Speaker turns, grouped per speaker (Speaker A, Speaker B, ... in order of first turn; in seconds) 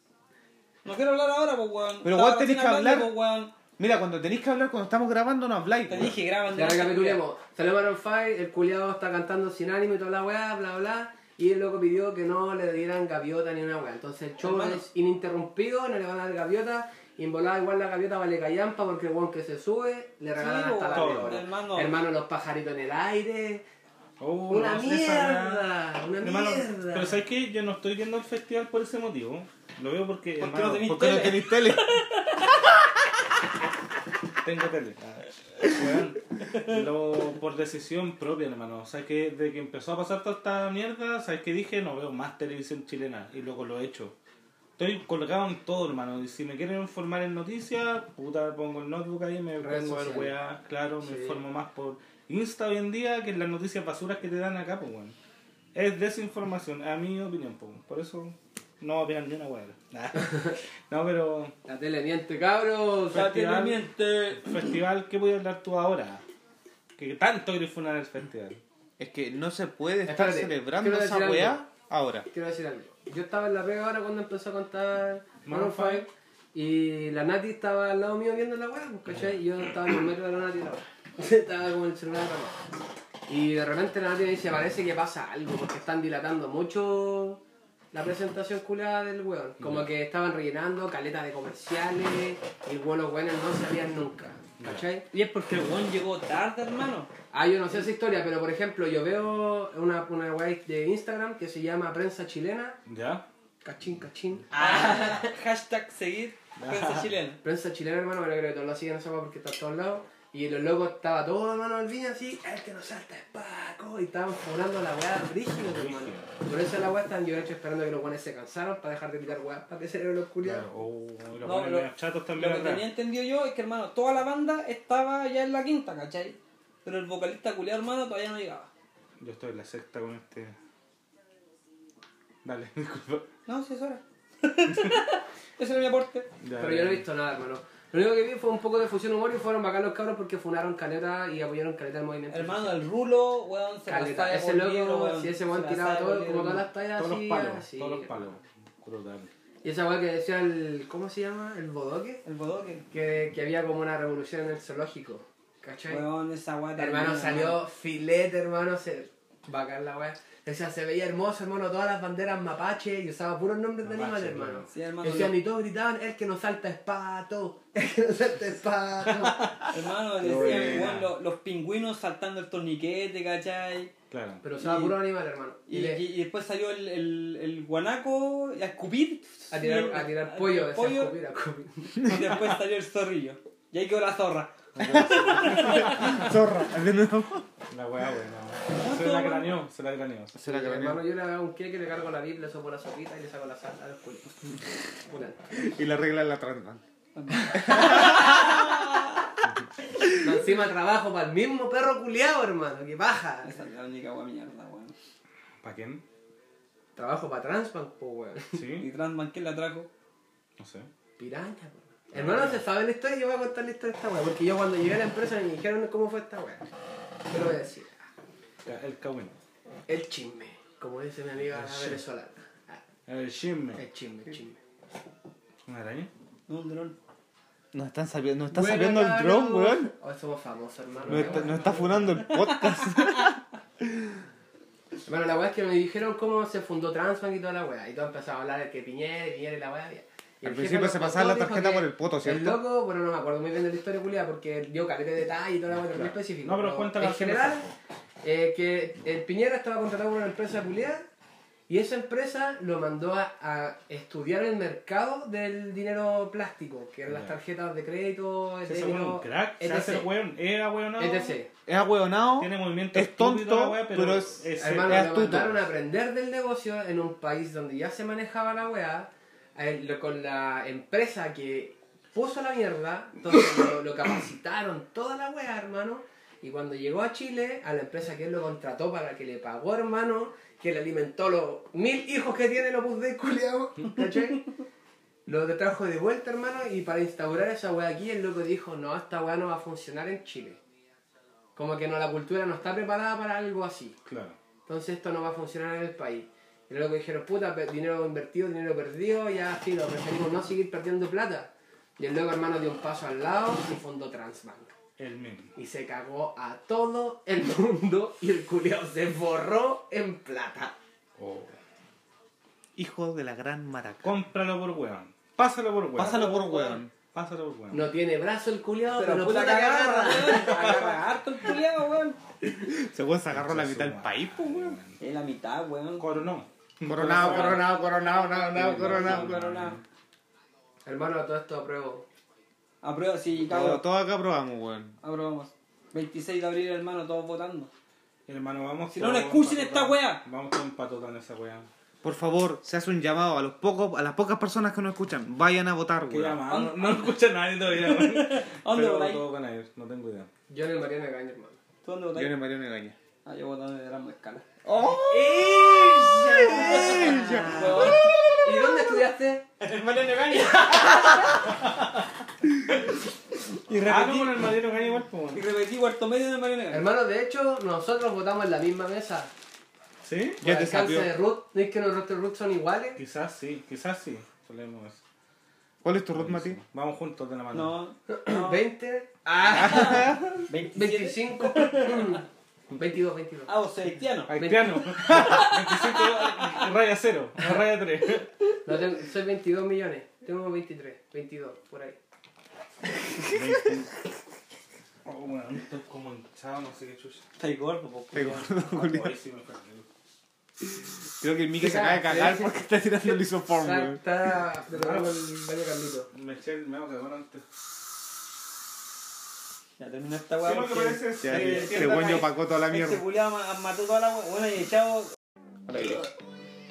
Speaker A: 0.8-3.5, 5.9-7.2, 14.4-14.8, 20.4-22.0, 30.4-32.6, 36.5-36.8, 63.1-64.5, 95.1-97.1, 104.5-107.4, 121.4-128.7, 133.5-136.3, 142.3-146.7, 152.2-152.8, 155.9-157.6, 164.7-165.4, 169.7-173.9, 174.6-175.0, 175.7-181.1, 182.0-186.3, 188.7-189.6, 197.1-199.2, 203.4-204.9, 208.8-209.9, 226.5-227.0, 232.3-233.3, 316.0-316.8, 318.9-322.2, 325.0-326.1, 327.0-329.8, 332.8-333.8, 335.0-337.7, 338.9-340.2, 346.5-347.2, 347.7-349.3, 351.8-352.3, 353.2-354.4, 356.4-358.2, 359.6-361.9, 363.5-364.5, 365.3-366.9, 377.5-378.7, 379.5-382.2, 383.5-386.3, 397.4-398.6, 409.8-415.1
Speaker B: 2.0-3.1, 3.8-6.2, 30.9-32.0, 69.0-72.3, 184.8-187.5, 190.3-191.0, 195.5-196.8, 197.5-198.8, 227.7-229.9, 231.1-233.4, 240.4-242.6, 261.7-265.6, 312.8-314.1, 315.9-316.9, 322.5-324.8, 326.8-329.4, 333.4-335.0, 342.0-346.4, 352.1-353.0, 354.6-358.8, 370.4-371.1, 375.8-376.6, 379.5-380.4, 398.1-399.1, 401.2-404.3, 411.2-413.0, 415.7-416.1
Speaker C: 6.5-23.6, 24.5-27.2, 49.6-50.4, 51.0-51.4, 60.1-60.6, 61.7-63.3, 70.1-71.6, 72.3-82.6, 83.3-95.1, 97.3-102.8, 103.6-105.3, 107.4-120.7, 136.6-142.8, 143.9-148.2, 149.6-152.2, 152.9-156.1, 156.8-169.7, 174.4-176.1, 179.5-182.2, 190.4-194.3, 195.1-195.4, 200.2-203.5, 207.0-208.6, 211.2-216.7, 217.3-218.0, 219.9-222.8, 223.8-224.6, 228.5-232.2, 235.0-247.7, 248.2-251.1, 251.7-260.1, 261.0-261.5, 264.6-284.5, 285.3-290.6, 291.6-294.0, 294.7-304.7, 305.6-310.8, 317.7-320.9, 330.9-332.1, 350.5-351.6, 354.9-359.4, 366.7-369.3, 370.4-373.0, 378.1-383.5, 384.3-385.2, 388.6-392.0, 401.6-406.1
Speaker D: 20.9-21.4, 24.2-25.7, 26.2-31.2, 34.4-44.1, 44.8-55.2, 55.8-61.5, 63.1-66.2, 67.0-68.6, 75.5-76.1, 89.6-89.9, 94.6-94.8, 102.9-103.2, 106.6-107.1, 115.6-116.3, 120.4-122.9, 129.2-130.6, 132.4-133.3, 136.4-137.1, 146.9-149.3, 163.8-164.7, 169.2-169.5, 170.2-171.1, 174.1-174.4, 184.8-186.1, 187.7-190.3, 205.6-206.0, 208.5-208.9, 210.6-210.9, 212.1-212.6, 218.6-219.4, 221.5-222.0, 223.1-223.8, 225.7-226.1, 231.1-231.9, 245.9-247.8, 257.1-257.3, 258.6-261.4, 262.4-265.4, 294.1-294.4, 305.0-305.5, 311.2-311.6, 314.0-316.2, 317.1-317.9, 323.3-325.0, 326.0-327.7, 328.6-329.8, 338.3-341.7, 346.1-350.3, 363.8-365.4, 370.0-370.4, 373.0-375.0, 376.1-377.8, 384.3-388.3, 393.2-393.9, 395.1-397.2, 398.7-399.9, 404.7-405.2, 406.1-407.6, 410.4-412.3